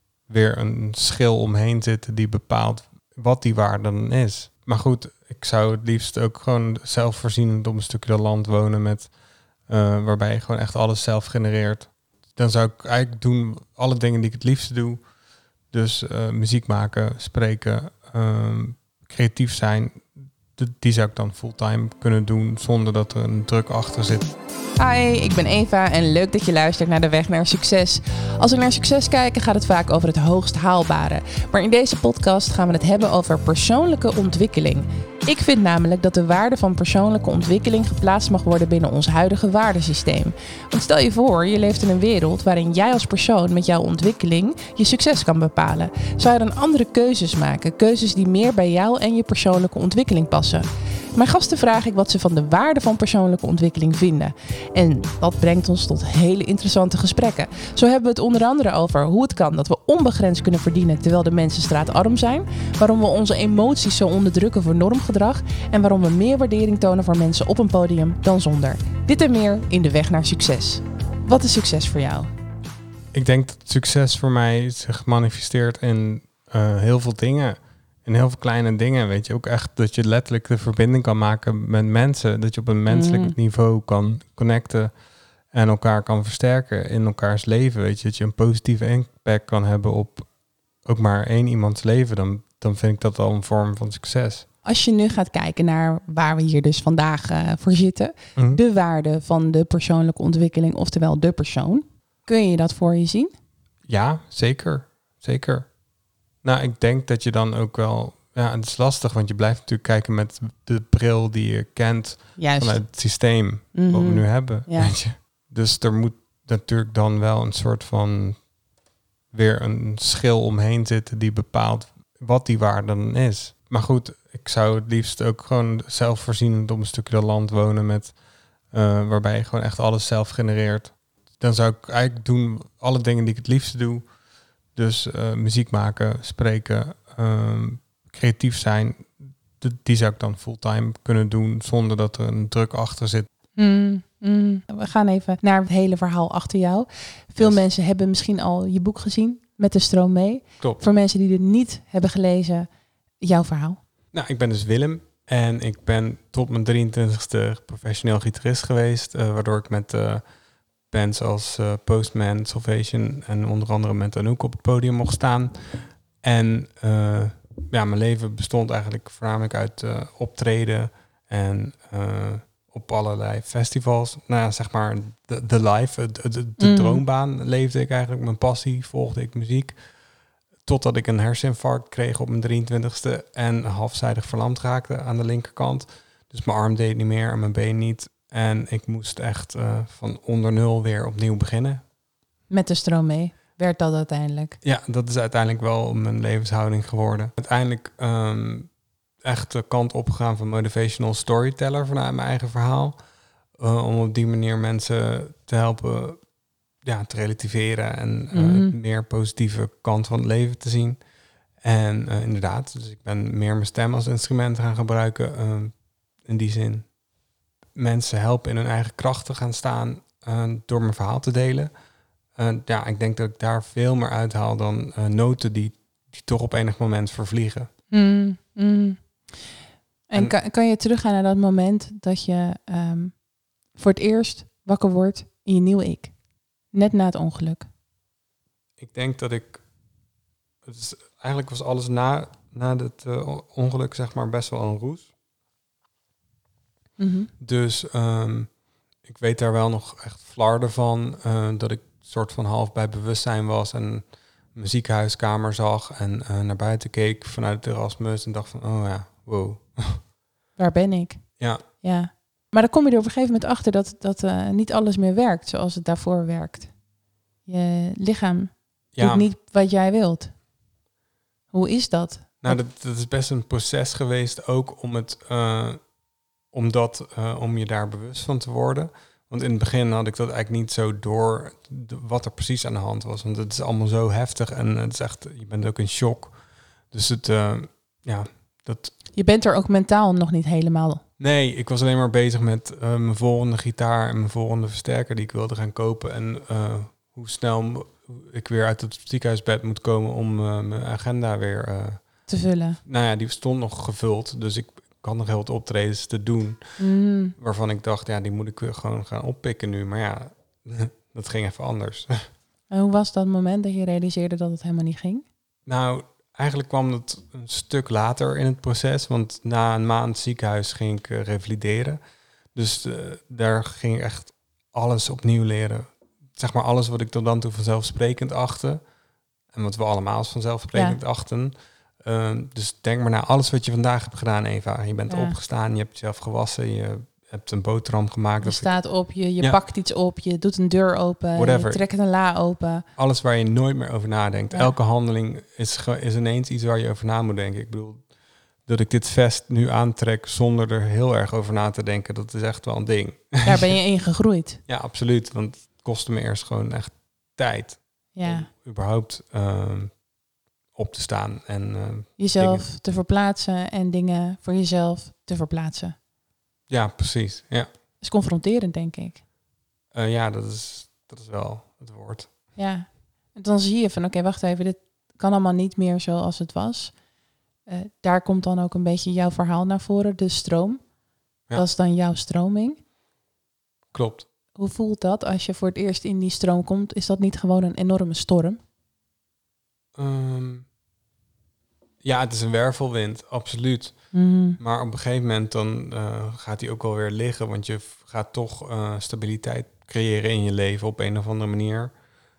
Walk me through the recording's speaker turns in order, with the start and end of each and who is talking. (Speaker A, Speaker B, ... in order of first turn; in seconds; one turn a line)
Speaker A: 0.3-15.0
Speaker A: 15.7-24.3
Speaker B: 24.8-72.3
Speaker A: 73.1-94.5
Speaker B: 82.9-83.3
Speaker B: 94.6-103.3
Speaker A: 103.9-105.7
Speaker A: 106.4-118.5
Speaker B: 112.4-112.9
Speaker B: 113.7-115.0
Speaker A: 119.3-134.1
Speaker A: 134.7-143.3
Speaker B: 143.6-152.7
Speaker B: 153.2-153.8
Speaker A: 154.1-160.2
Speaker A: 160.9-179.8
Speaker B: 176.6-177.0
Speaker A: 180.6-191.8
Speaker B: 192.5-194.6
Speaker A: 194.6-202.9
Speaker A: 203.6-206.2
Speaker A: 206.8-211.0
Speaker B: 208.3-208.8
Speaker A: 211.6-216.9
Speaker A: 217.7-221.7
Speaker A: 222.3-227.7
Speaker B: 227.9-236.1
Speaker B: 236.7-237.7
Speaker A: 238.8-239.6
Speaker A: 240.6-245.1
Speaker B: 247.0-247.3
Speaker A: 247.4-260.0
Speaker B: 260.6-266.8
Speaker B: 267.4-270.4
Speaker A: 268.9-269.3
Speaker B: 271.5-272.6
Speaker A: 272.4-275.9
Speaker A: 276.5-288.9
Speaker B: 289.1-291.0
Speaker A: 291.2-302.3
Speaker B: 302.3-302.8
Speaker A: 302.8-306.8
Speaker B: 306.8-307.3
Speaker A: 307.4-312.1
Speaker B: 312.7-315.2
Speaker A: 315.6-322.0
Speaker A: 322.5-328.8
Speaker A: 329.5-338.7
Speaker B: 330.7-331.0
Speaker B: 335.1-335.4
Speaker B: 338.4-342.9
Speaker A: 341.3-341.8
Speaker A: 342.9-353.5
Speaker B: 353.4-354.6
Speaker A: 354.7-360.1
Speaker B: 358.1-358.5
Speaker A: 360.7-362.7
Speaker B: 362.2-365.9
Speaker A: 366.7-367.7
Speaker B: 368.0-369.2
Speaker A: 369.9-372.3
Speaker B: 372.6-377.0
Speaker B: 377.6-380.9
Speaker B: 381.5-382.8
Speaker A: 383.9-384.3
Speaker B: 384.6-388.6
Speaker A: 389.9-390.7
Speaker A: 392.0-394.1
Speaker B: 394.1-394.6
Speaker A: 394.6-401.9